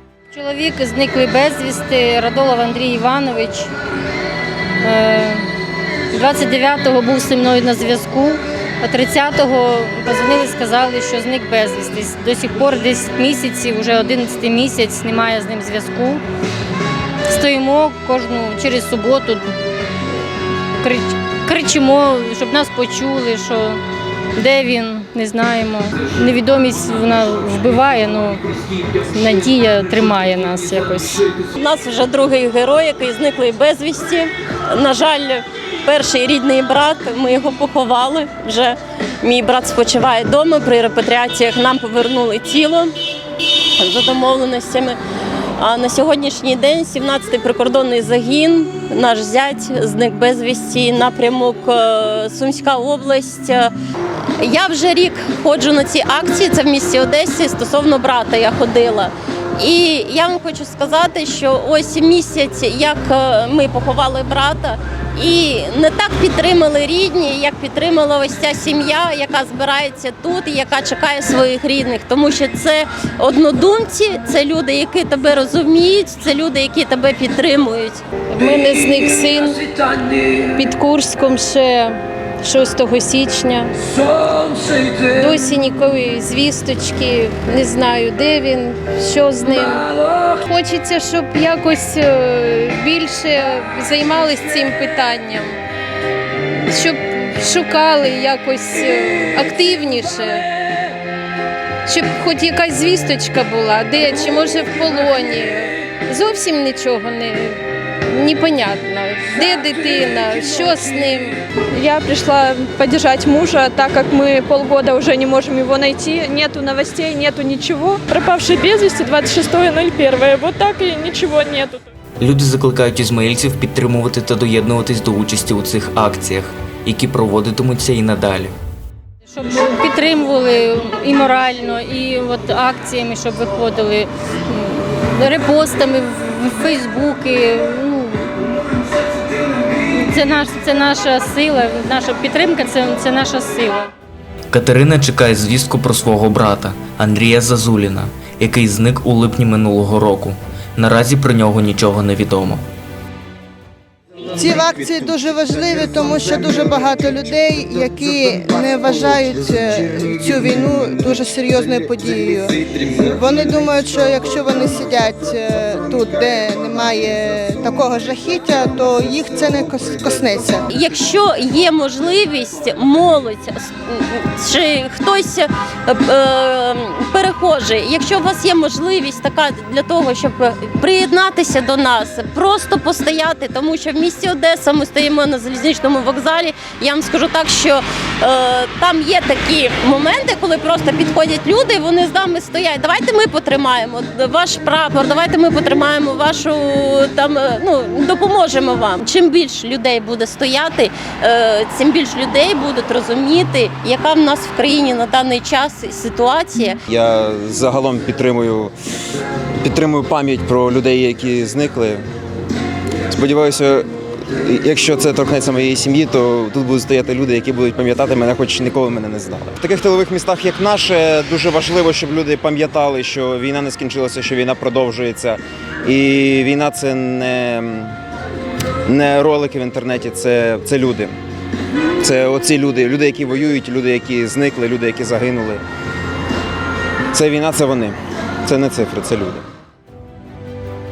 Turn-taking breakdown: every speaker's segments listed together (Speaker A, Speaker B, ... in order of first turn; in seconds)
Speaker A: 0.3-3.7, 4.8-5.5, 6.1-16.2, 17.3-19.5, 20.8-23.8, 24.4-28.4, 29.0-31.3, 129.3-138.4, 139.7-143.9
Speaker B: 31.6-42.9, 43.8-45.0, 45.6-53.7, 54.4-78.0, 170.7-206.8
Speaker C: 78.3-79.8, 80.4-83.7, 84.3-95.6, 96.7-100.5, 101.8-111.4
Speaker D: 111.7-121.8
Speaker E: 122.2-128.5, 144.5-152.6
Speaker F: 154.3-170.7
Speaker G: 206.9-208.7, 209.6-212.0, 213.1-228.0, 228.8-231.1, 232.0-235.6, 237.1-239.4